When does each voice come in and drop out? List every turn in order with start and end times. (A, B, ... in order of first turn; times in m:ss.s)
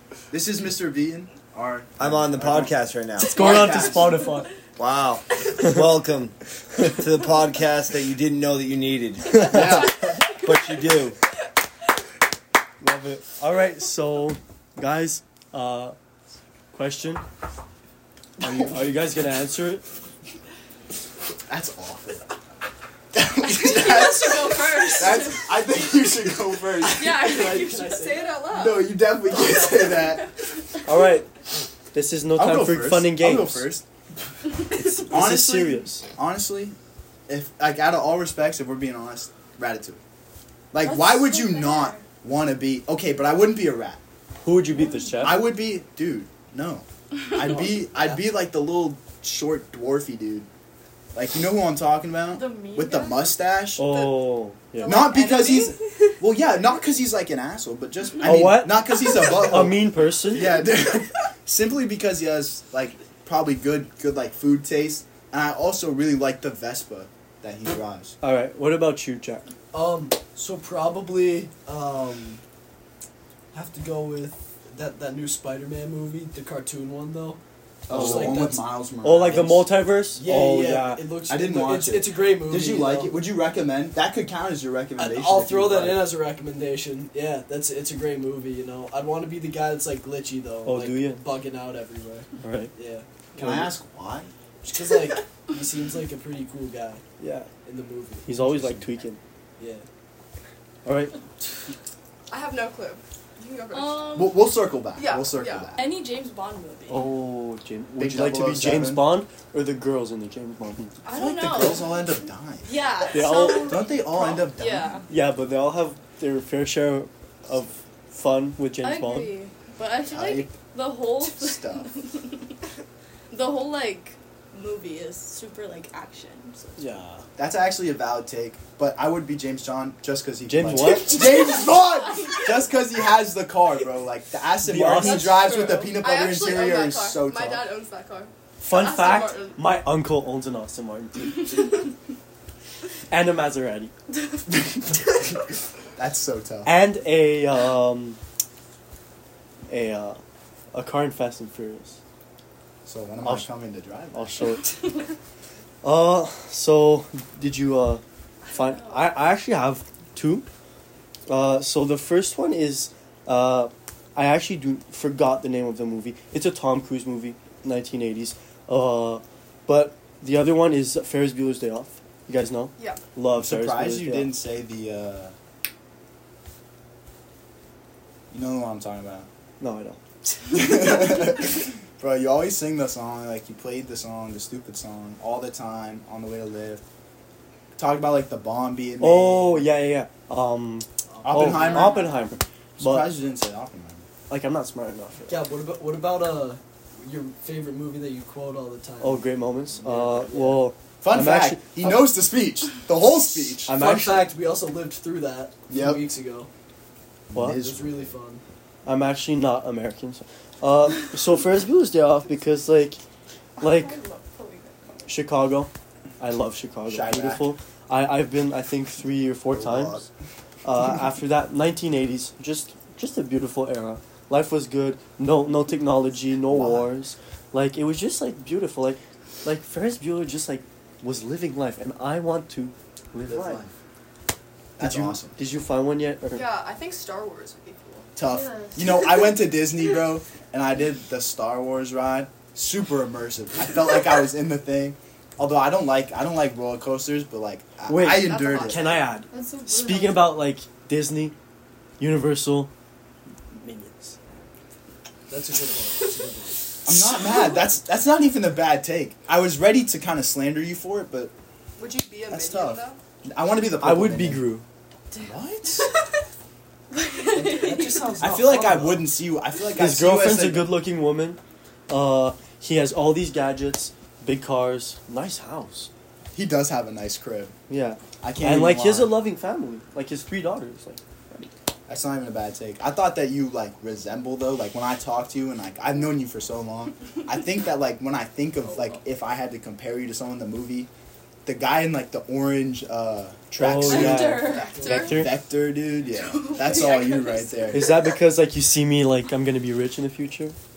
0:00.3-0:02.7 A
0:02.0-0:03.4 B
0:03.2-0:04.5 C
0:03.3-0:04.2 A
0:03.4-0:04.1 D
0:04.8-0:11.2 B
0:09.5-0:10.0 A
0:12.8-0:16.0 C
0:16.7-0:17.2 C
0:18.4-0:19.8 C
0:18.4-0:18.8 A
0:21.5-0:22.2 A
0:23.1-0:27.4 A
0:23.4-0:25.6 D
0:26.9-0:28.3 D
0:27.0-0:28.3 E
0:27.8-0:28.9 F
0:28.5-0:30.2 A
0:29.7-0:30.0 D
0:30.8-0:31.3 C
0:31.9-0:33.7 C
0:32.4-0:33.8 A
0:34.8-0:36.0 C
0:35.0-0:36.8 A
0:37.3-0:40.0 A
0:40.7-0:44.0 A
0:40.8-0:42.0 D
0:44.4-0:45.4 C
0:45.2-0:50.5 A
0:47.8-0:48.3 E
0:51.1-0:53.8 A
0:52.3-0:53.3 D
0:53.8-0:55.1 C
0:54.8-0:59.8 A
0:54.8-0:55.8 F
0:54.9-0:55.5 D
0:58.2-1:00.6 C
1:00.3-1:08.1 A
1:08.2-1:09.4 C
1:09.7-1:12.4 E
1:13.5-1:18.6 E
1:17.9-1:19.7 A
1:17.9-1:18.4 C
1:19.0-1:21.0 C
1:20.1-1:23.2 E
1:21.3-1:26.1 A
1:25.0-1:33.7 E
1:30.6-1:31.2 C
1:32.4-1:32.7 C
1:33.4-1:34.3 A
1:34.6-1:37.0 E
1:37.2-1:37.5 C
1:37.6-1:38.8 E
1:38.2-1:39.2 C
1:39.6-1:39.8 E
1:40.8-1:41.2 C
1:42.3-1:44.3 F
1:43.7-1:44.4 D
1:44.1-1:45.8 A
1:45.0-1:45.8 F
1:45.7-1:47.1 D
1:46.9-1:50.9 C
1:48.0-1:49.1 A
1:51.0-1:52.1 D
1:51.1-1:52.7 A
1:52.6-1:55.0 D
1:53.1-1:53.7 C
1:53.5-1:54.9 A
1:55.1-1:59.3 C
1:58.8-2:02.4 D
2:00.1-2:00.5 A
2:01.3-2:01.9 A
2:03.3-2:07.0 D
2:06.8-2:07.2 C
2:07.4-2:17.7 A
2:10.5-2:11.5 C
2:14.6-2:15.4 C
2:15.0-2:19.6 F
2:18.6-2:21.7 C
2:23.1-2:23.9 C
2:26.0-2:26.7 A
2:26.6-2:28.2 C
2:29.7-2:30.2 C
2:30.7-2:32.0 C
2:32.8-2:34.4 A
2:33.2-2:33.5 C
2:34.1-2:34.8 C
2:35.8-2:40.5 C
2:38.6-2:38.9 D
2:41.3-2:54.4 C
2:52.8-2:53.0 F
2:53.3-2:55.3 A
2:58.3-2:59.3 A
2:59.6-3:00.0 C
3:00.5-3:06.8 A
3:07.8-3:09.7 A
3:09.0-3:13.1 C
3:11.1-3:11.9 E
3:11.2-3:12.0 A
3:12.8-3:14.0 A
3:14.3-3:15.4 C
3:15.3-3:20.7 E
3:19.0-3:21.7 C
3:21.0-3:23.7 A
3:23.6-3:24.3 C
3:23.7-3:26.5 E
3:25.7-3:26.0 A
3:27.3-3:28.0 A
3:27.3-3:27.6 C
3:27.5-3:28.4 E
3:28.8-3:33.0 C
3:33.6-3:34.0 C
3:33.6-3:35.1 D
3:35.0-3:40.0 C
3:36.9-3:37.5 A
3:39.5-3:40.1 A
3:40.6-3:53.6 C
3:46.5-3:46.9 A
3:53.3-3:53.7 A
3:54.8-3:55.3 A
3:54.8-3:56.5 C
3:56.3-3:58.1 F
3:58.2-4:08.8 A
3:58.3-3:59.3 D
4:07.8-4:11.4 C
4:08.0-4:09.2 F
4:09.3-4:10.4 D
4:12.0-4:12.7 C
4:13.5-4:14.2 C
4:15.3-4:16.6 E
4:16.8-4:21.3 A
4:21.8-4:23.0 F
4:22.3-4:24.5 A
4:23.8-4:24.6 C
4:25.2-4:25.9 A
4:26.9-4:28.0 D
4:27.3-4:29.1 E
4:28.2-4:30.7 A
4:29.8-4:35.9 C
4:36.3-4:37.5 A
4:37.7-4:41.5 C
4:38.2-4:39.2 A
4:41.9-4:50.9 A
4:51.4-4:57.9 A
4:53.6-4:55.4 C
4:53.9-4:54.8 D
4:53.9-4:55.2 F
4:54.7-4:55.1 E
4:56.3-4:57.4 D
4:56.5-4:57.6 F
4:57.7-5:00.6 C